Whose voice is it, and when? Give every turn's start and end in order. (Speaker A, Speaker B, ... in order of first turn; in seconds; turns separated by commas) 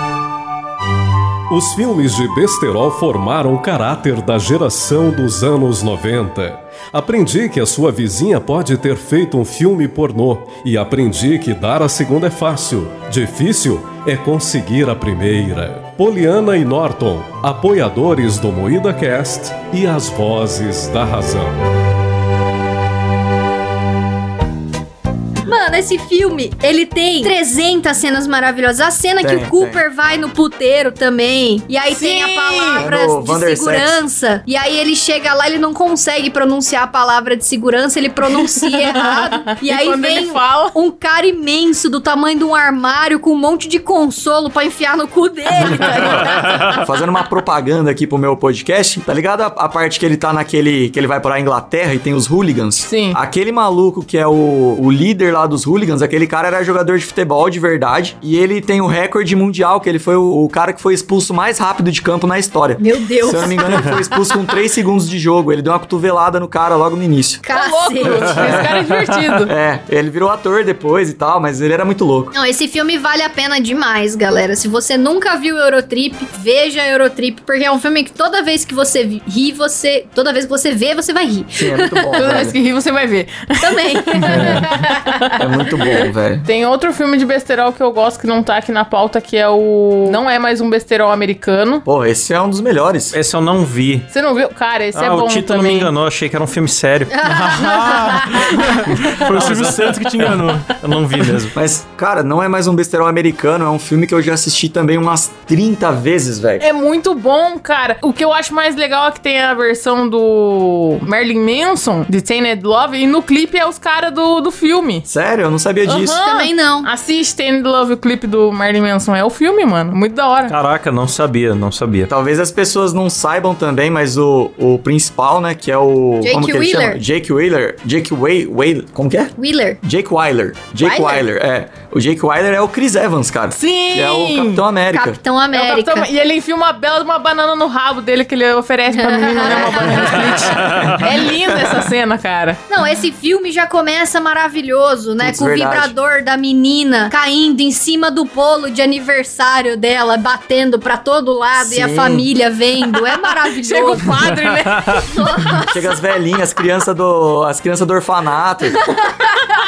Speaker A: 1.5-21.6, Speaker B: 25.4-46.8, Speaker C: 29.2-29.8, Speaker D: 31.9-32.9, Speaker C: 32.8-34.0, Speaker D: 38.3-40.8, Speaker D: 45.7-46.1, Speaker C: 46.0-67.4, Speaker D: 52.8-53.2, Speaker B: 62.8-64.2, Speaker B: 67.4-68.6, Speaker D: 67.5-69.5, Speaker E: 68.7-69.3, Speaker C: 69.5-72.3, Speaker B: 72.3-82.4, Speaker C: 81.5-82.6, Speaker D: 82.1-85.4, Speaker B: 83.6-84.8, Speaker C: 84.2-84.7, Speaker C: 85.4-86.4, Speaker D: 85.9-91.8, Speaker C: 91.8-93.1, Speaker E: 93.1-94.1, Speaker D: 94.1-95.9, Speaker E: 94.9-97.6, Speaker B: 97.1-98.4, Speaker F: 97.3-100.7, Speaker E: 98.9-100.1, Speaker E: 100.8-101.5, Speaker C: 101.5-106.6, Speaker D: 106.6-115.0, Speaker C: 115.1-116.2, Speaker D: 115.8-120.5, Speaker B: 116.2-116.9, Speaker E: 120.5-122.1, Speaker C: 122.1-135.2, Speaker B: 126.2-127.0, Speaker B: 129.4-129.8, Speaker B: 130.8-131.2, Speaker D: 133.5-134.6, Speaker B: 134.9-136.1, Speaker D: 135.5-142.6, Speaker B: 138.9-140.6, Speaker C: 139.5-140.3, Speaker E: 140.2-141.0, Speaker C: 141.1-141.7, Speaker B: 142.7-154.3, Speaker C: 145.2-145.9, Speaker C: 151.5-152.3, Speaker D: 153.0-155.3, Speaker E: 154.2-155.0, Speaker B: 155.1-155.9, Speaker C: 155.7-158.9